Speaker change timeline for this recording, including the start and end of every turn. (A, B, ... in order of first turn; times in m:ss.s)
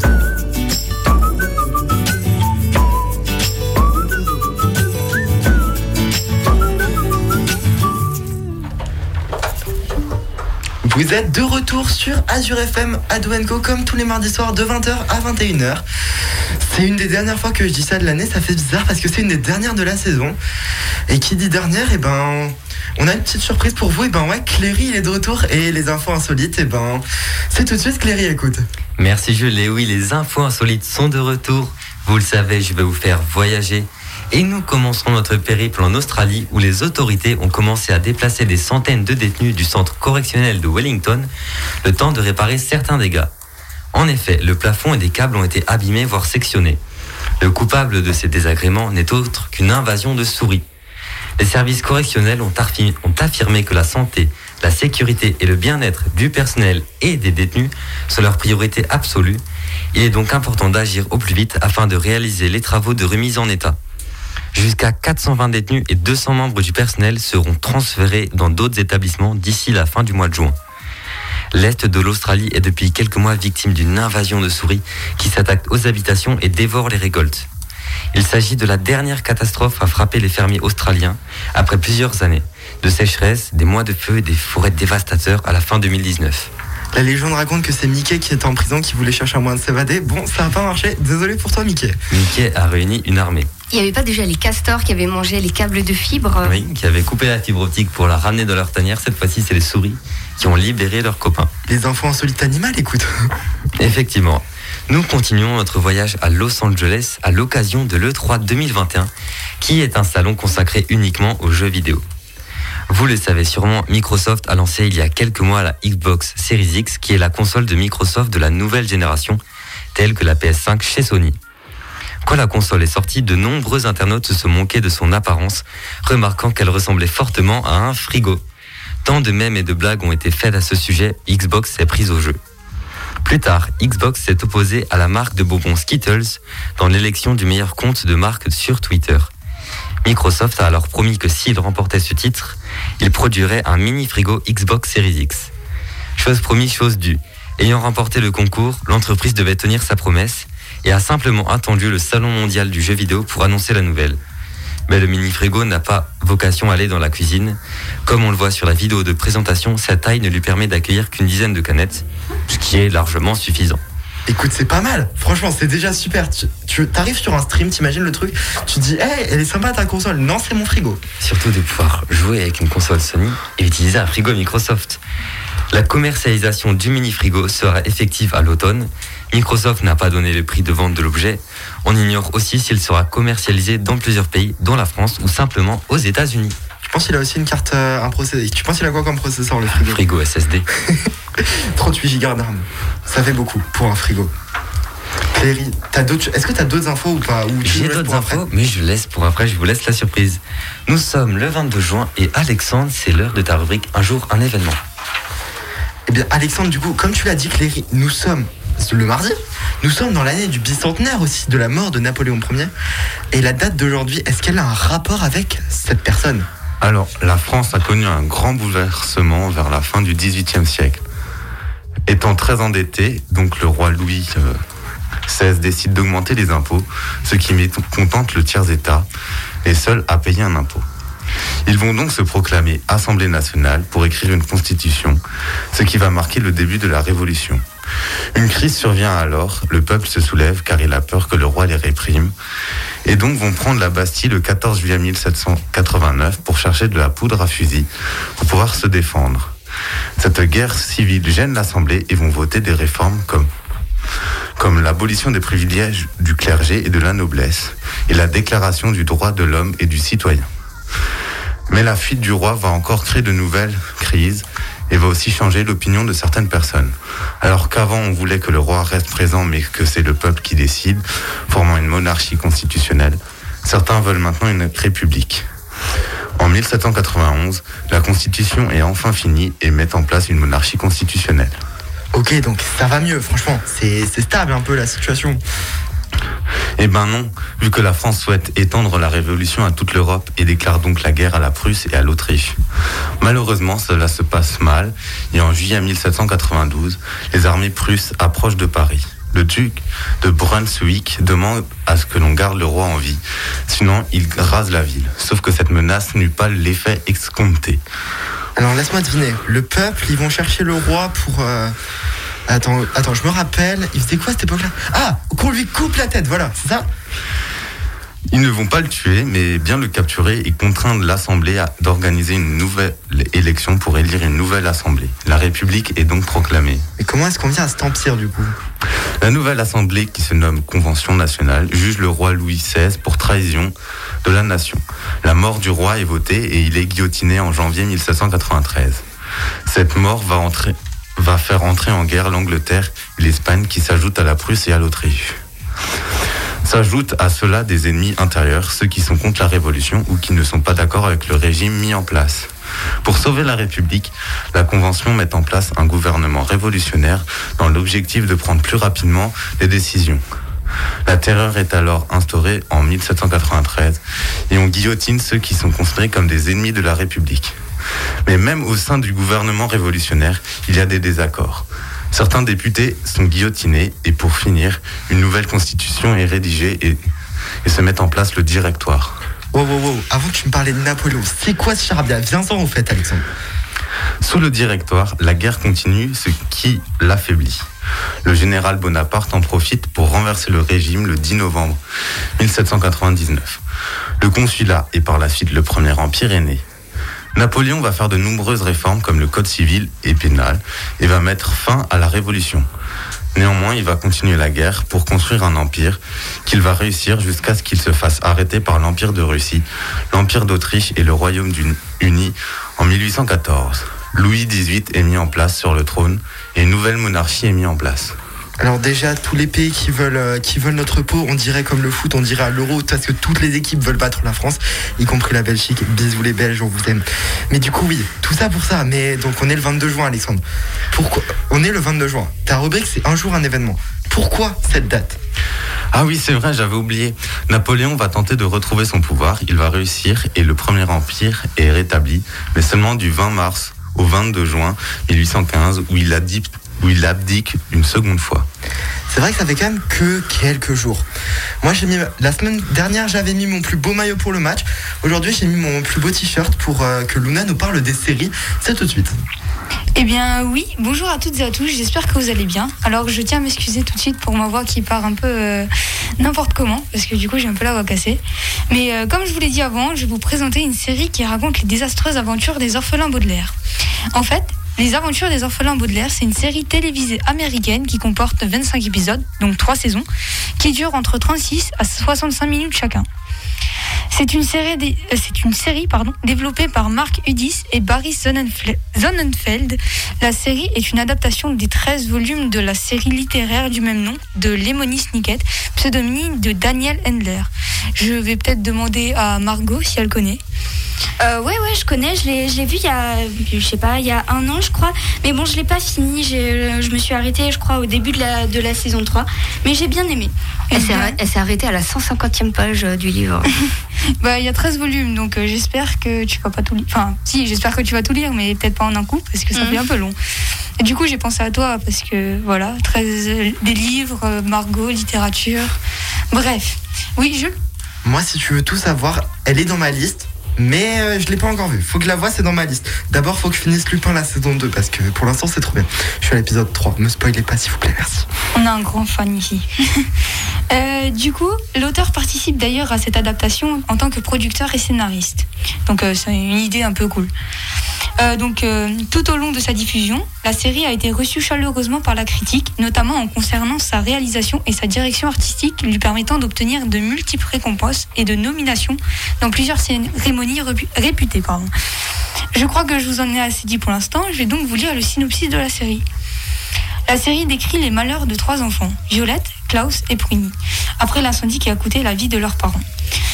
0:10.8-0:15.8 A
0:16.6-0:20.4 A
0:21.1-0:28.7 A
0:29.0-0:41.3 B
0:41.8-0:43.3 B
0:43.9-0:46.8 B
0:47.4-0:50.6 B
0:51.4-0:59.4 B
0:59.9-1:03.8 B
1:04.5-1:10.6 B
1:11.5-1:17.5 B
1:18.1-1:26.5 B
1:26.9-1:32.0 A
1:32.1-1:33.5 B
1:33.7-1:36.6 C
1:36.4-1:41.5 B
1:41.7-1:43.3 A
1:43.8-1:52.0 B
1:52.9-1:59.4 B
2:00.0-2:01.4 B
2:02.2-2:08.4 B
2:09.0-2:12.4 B
2:13.2-2:19.3 B
2:20.0-2:25.5 B
2:26.2-2:34.2 B
2:34.9-2:43.8 B
2:44.3-2:51.0 A
2:51.2-2:55.0 B
2:55.7-3:06.6 B
3:06.8-3:10.0 A
3:09.7-3:10.7 B
3:10.8-3:14.3 A
3:15.3-3:18.4 A
3:17.6-3:24.8 B
3:26.1-3:32.7 A
3:33.3-3:36.5 A
3:36.8-3:41.0 D
3:42.1-3:44.6 D
3:45.3-3:49.1 D
3:49.6-3:50.9 D
3:51.7-3:55.2 D
3:55.7-3:57.6 D
3:58.3-4:02.3 D
4:03.0-4:09.5 D
4:10.2-4:13.5 D
4:14.6-4:20.5 D
4:21.7-4:35.5 D
4:36.4-4:41.6 D
4:42.1-4:45.4 A
4:46.8-4:52.6 D
4:53.2-5:07.8 D
5:08.6-5:11.8 A
5:12.5-5:16.9 A
5:18.3-5:26.9 D
5:27.0-5:28.6 A
5:29.2-5:33.7 D
5:34.2-5:39.0 D
5:39.7-5:45.4 D
5:46.6-5:52.5 D
5:53.0-6:00.2 D
6:01.0-6:07.6 D
6:08.3-6:17.0 D
6:17.6-6:19.2 D
6:19.5-6:23.2 A
6:24.2-6:27.7 D
6:28.2-6:31.8 D
6:32.4-6:33.6 D
6:34.2-6:36.6 D
6:37.4-6:42.7 D
6:43.3-6:58.2 D
6:58.6-7:15.2 A
7:15.9-7:28.5 D
7:29.1-7:31.1 A
7:31.6-7:39.1 A
7:40.0-7:53.6 E
7:54.1-8:00.1 E
8:00.6-8:03.1 E
8:04.1-8:20.4 E
8:21.2-8:30.3 F
8:30.7-8:33.5 C
8:30.8-8:31.1 E
8:34.2-8:40.2 E
8:39.5-8:39.8 F
8:40.8-8:45.8 E
8:46.3-8:47.6 E
8:48.0-8:58.3 A
8:58.6-9:00.1 E
9:00.7-9:07.3 E
9:08.2-9:21.7 E
9:22.5-9:26.0 E
9:27.1-9:32.8 E